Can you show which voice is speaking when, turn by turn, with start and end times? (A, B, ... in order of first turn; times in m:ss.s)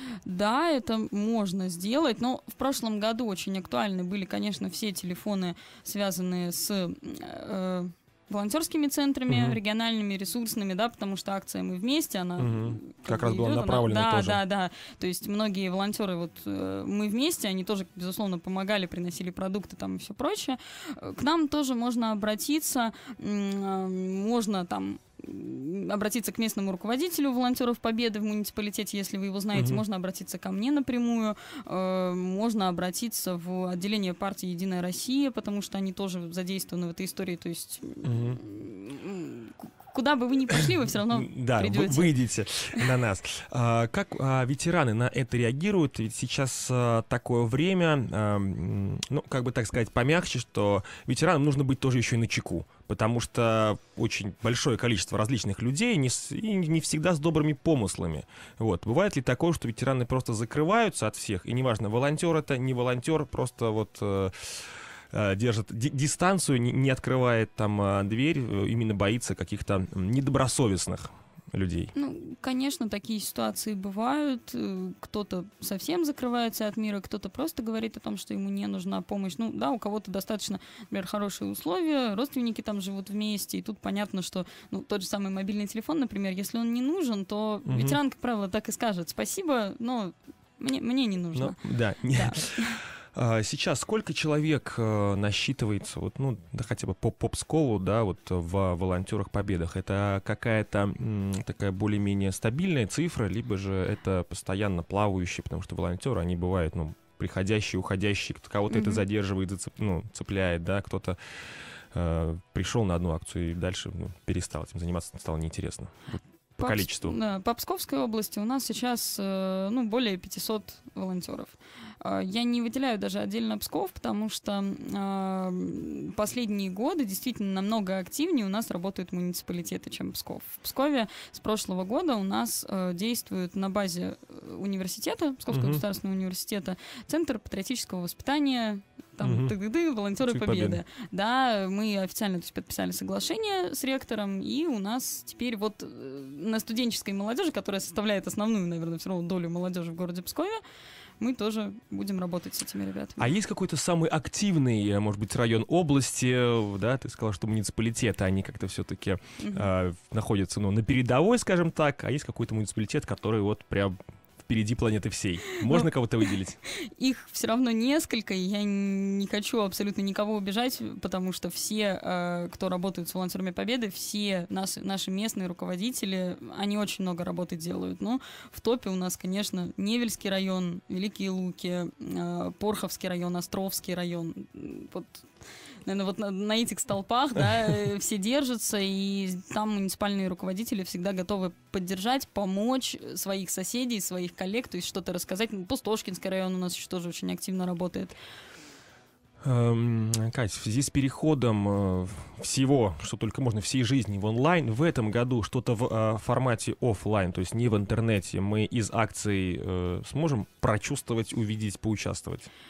0:00.2-0:42.1 A
0:09.3-0:09.6 B
0:12.4-0:14.4 B
0:29.5-0:29.8 B
0:38.0-0:38.4 B
0:40.6-1:11.9 B
1:11.9-1:32.8 A
1:27.6-1:28.0 B
1:31.3-1:51.2 B
1:48.7-1:49.0 A
1:51.9-1:57.2 B
1:56.6-2:30.6 A
2:15.5-2:15.8 B
2:19.2-2:19.5 B
2:20.2-2:20.8 B
2:31.2-2:33.3 A
2:33.2-2:46.6 B
2:39.4-2:39.7 A
2:45.6-2:45.9 A
2:46.6-3:05.2 A
3:05.8-3:18.1 A
3:19.4-3:32.5 B